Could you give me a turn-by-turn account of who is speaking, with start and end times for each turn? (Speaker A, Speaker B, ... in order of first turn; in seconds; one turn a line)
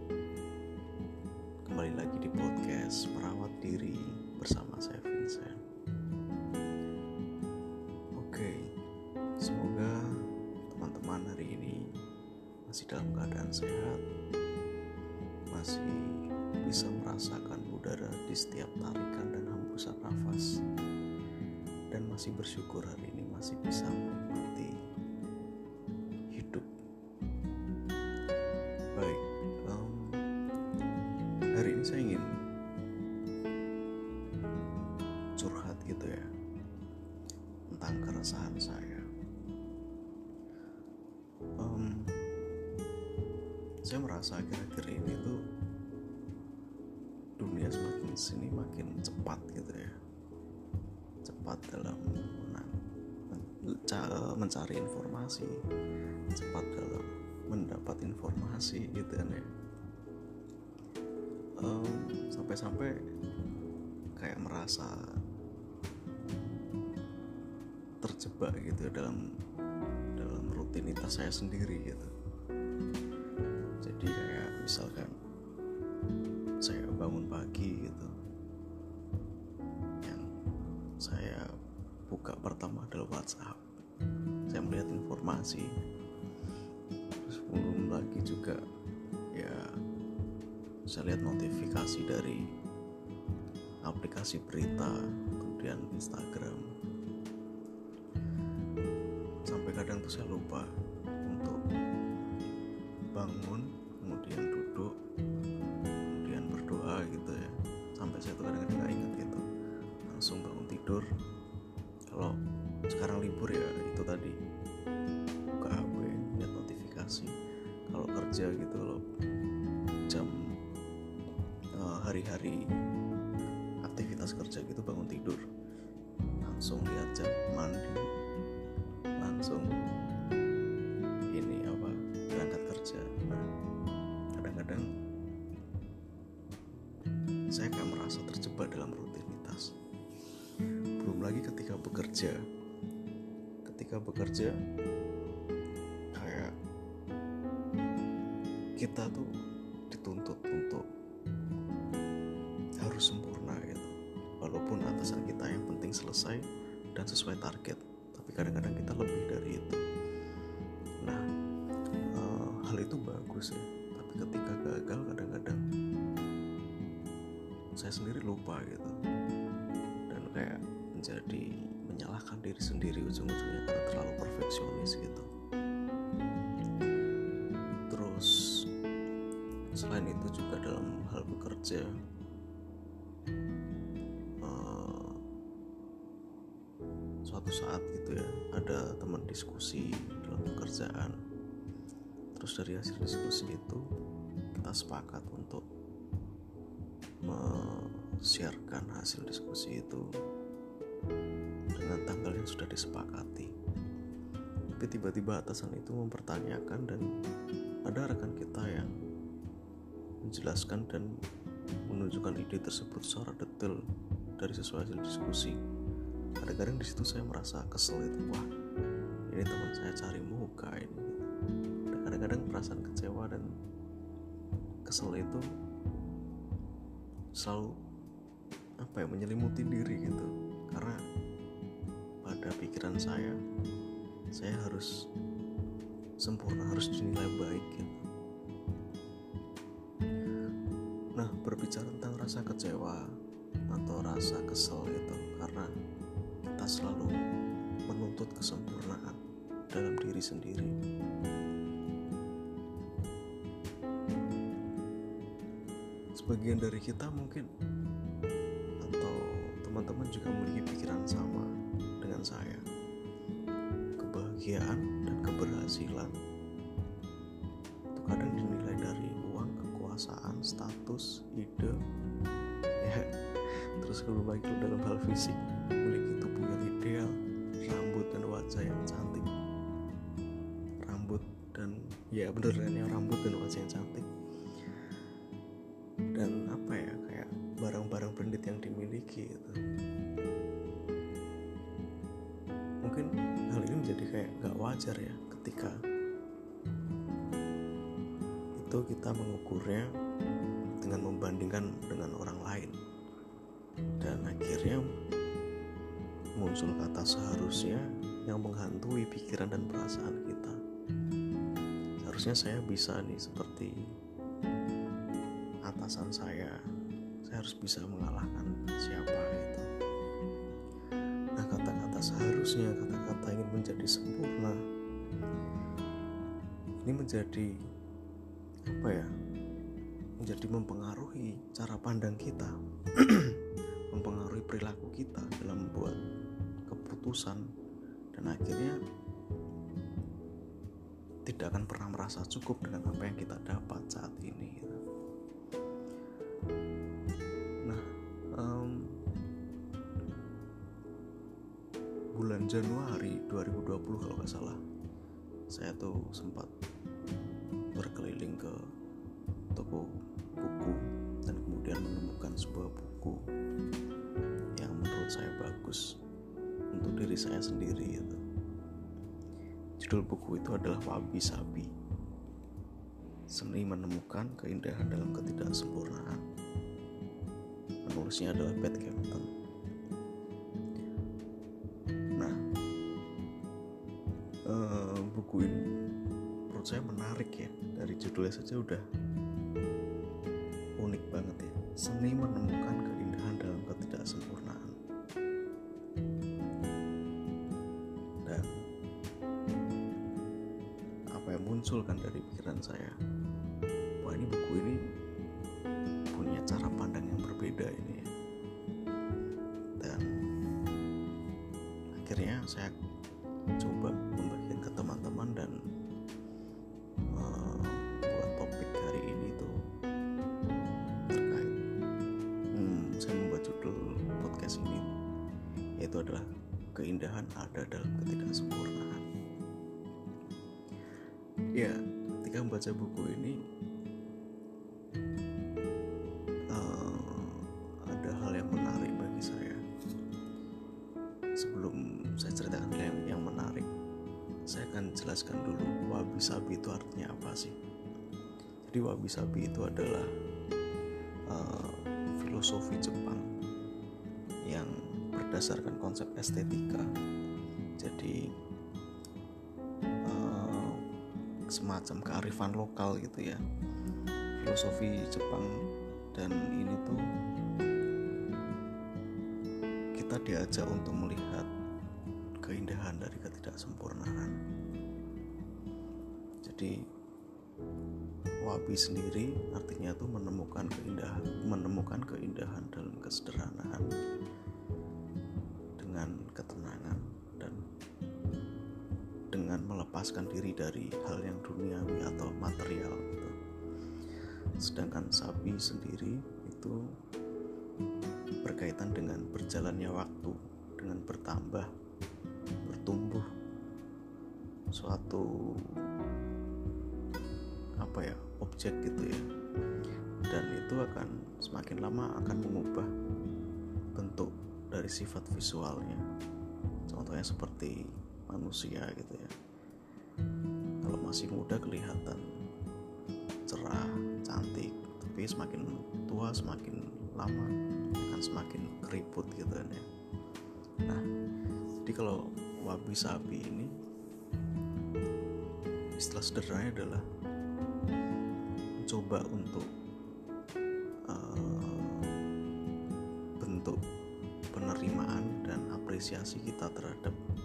Speaker A: 1.7-5.6
Speaker A: 8.2-8.6
Speaker A: 9.4-9.9
Speaker A: 10.7-11.8
Speaker A: 12.7-14.0
Speaker A: 15.5-16.1
Speaker A: 16.6-20.5
Speaker A: 21.9-24.7
Speaker A: 26.3-26.7
Speaker A: 28.9-30.2
Speaker A: 31.6-32.3
Speaker A: 35.4-36.3
Speaker A: 37.7-39.0
Speaker A: 41.6-42.1
Speaker A: 43.9-45.4
Speaker A: 47.4-49.9
Speaker A: 51.2-52.8
Speaker A: 53.3-55.5
Speaker A: 56.3-59.5
Speaker A: 61.6-62.9
Speaker A: 64.2-65.0
Speaker A: 68.0-69.2
Speaker A: 70.1-72.1
Speaker A: 73.8-75.1
Speaker A: 76.6-78.1
Speaker A: 81.0-81.5
Speaker A: 82.1-83.6
Speaker A: 84.5-85.7
Speaker A: 87.2-88.6
Speaker A: 89.3-89.7
Speaker A: 90.9-92.4
Speaker A: 93.8-96.7
Speaker A: 99.5-100.7
Speaker A: 101.2-101.6
Speaker A: 103.1-104.9
Speaker A: 106.1-109.4
Speaker A: 110.1-111.0
Speaker A: 112.1-112.3
Speaker A: 112.9-114.4
Speaker A: 115.5-117.3
Speaker A: 117.9-119.0
Speaker A: 121.8-122.6
Speaker A: 123.8-125.4
Speaker A: 126.4-128.0
Speaker A: 129.2-129.7
Speaker A: 131.3-133.4
Speaker A: 134.4-134.9
Speaker A: 137.5-139.7
Speaker A: 141.0-142.4
Speaker A: 143.7-144.5
Speaker A: 146.1-146.5
Speaker A: 148.8-149.3
Speaker A: 149.9-150.8
Speaker A: 152.8-159.8
Speaker A: 162.1-165.6
Speaker A: 167.8-168.9
Speaker A: 170.1-175.3
Speaker A: 177.9-178.4
Speaker A: 179.7-181.9
Speaker A: 184.4-185.2
Speaker A: 187.2-191.2
Speaker A: 192.3-193.8
Speaker A: 194.5-195.6
Speaker A: 197.3-200.0
Speaker A: 201.8-203.5
Speaker A: 204.8-207.1
Speaker A: 207.8-208.9
Speaker A: 210.2-211.1
Speaker A: 211.9-213.8
Speaker A: 214.4-215.6
Speaker A: 216.4-218.5
Speaker A: 219.3-221.2
Speaker A: 221.9-223.5
Speaker A: 224.8-225.4
Speaker A: 227.4-227.7
Speaker A: 228.8-231.0
Speaker A: 232.2-233.3
Speaker A: 234.3-234.9
Speaker A: 236.2-238.0
Speaker A: 241.2-243.0
Speaker A: 243.7-245.7
Speaker A: 246.4-247.1
Speaker A: 247.9-249.2
Speaker A: 249.7-250.7
Speaker A: 256.1-257.5
Speaker A: 258.8-261.4
Speaker A: 262.0-262.6
Speaker A: 264.0-266.1
Speaker A: 267.9-271.8
Speaker A: 272.8-277.1
Speaker A: 277.6-279.3
Speaker A: 280.9-284.1
Speaker A: 286.1-289.6
Speaker A: 292.8-295.7
Speaker A: 298.6-299.9
Speaker A: 300.8-302.8
Speaker A: 304.0-304.9
Speaker A: 306.4-310.6
Speaker A: 312.0-313.7
Speaker A: 315.7-316.6
Speaker A: 317.2-319.7
Speaker A: 321.4-324.6
Speaker A: 326.9-327.5
Speaker A: 328.7-329.1
Speaker A: 330.2-333.4
Speaker A: 333.9-336.0
Speaker A: 336.7-337.4
Speaker A: 338.1-338.8
Speaker A: 341.2-344.8
Speaker A: 348.4-348.9
Speaker A: 352.1-354.6
Speaker A: 355.5-356.5
Speaker A: 357.7-358.6
Speaker A: 359.6-359.9
Speaker A: 360.4-363.2
Speaker A: 364.6-365.8
Speaker A: 366.7-368.2
Speaker A: 369.8-371.7
Speaker A: 373.3-376.2
Speaker A: 377.9-379.3
Speaker A: 384.5-385.6
Speaker A: 386.5-388.8
Speaker A: 390.8-394.8
Speaker A: 401.1-402.9
Speaker A: 404.0-404.8
Speaker A: 406.1-408.1
Speaker A: 409.8-410.1
Speaker A: 412.0-412.7
Speaker A: 413.6-415.6
Speaker A: 417.1-419.5
Speaker A: 421.1-421.6
Speaker A: 422.6-424.9
Speaker A: 425.8-429.0
Speaker A: 431.6-433.4
Speaker A: 436.5-439.6
Speaker A: 441.4-443.7
Speaker A: 444.5-447.6
Speaker A: 448.7-450.1
Speaker A: 451.3-453.2
Speaker A: 454.5-456.9
Speaker A: 457.8-458.2
Speaker A: 460.1-460.8
Speaker A: 461.5-463.4
Speaker A: 464.4-465.5
Speaker A: 466.1-467.0
Speaker A: 469.9-471.5
Speaker A: 472.4-474.4
Speaker A: 476.4-476.7
Speaker A: 478.4-483.9
Speaker A: 485.8-487.6
Speaker A: 489.3-493.3
Speaker A: 494.6-496.8
Speaker A: 498.4-501.7
Speaker A: 502.6-503.2
Speaker A: 504.7-505.7
Speaker A: 507.8-509.2
Speaker A: 510.3-512.9
Speaker A: 514.0-516.0
Speaker A: 516.9-519.3
Speaker A: 520.8-522.2
Speaker A: 523.5-529.9
Speaker A: 531.8-533.7
Speaker A: 536.0-537.0
Speaker A: 538.8-539.7
Speaker A: 541.1-542.0
Speaker A: 543.4-543.8
Speaker A: 544.5-547.2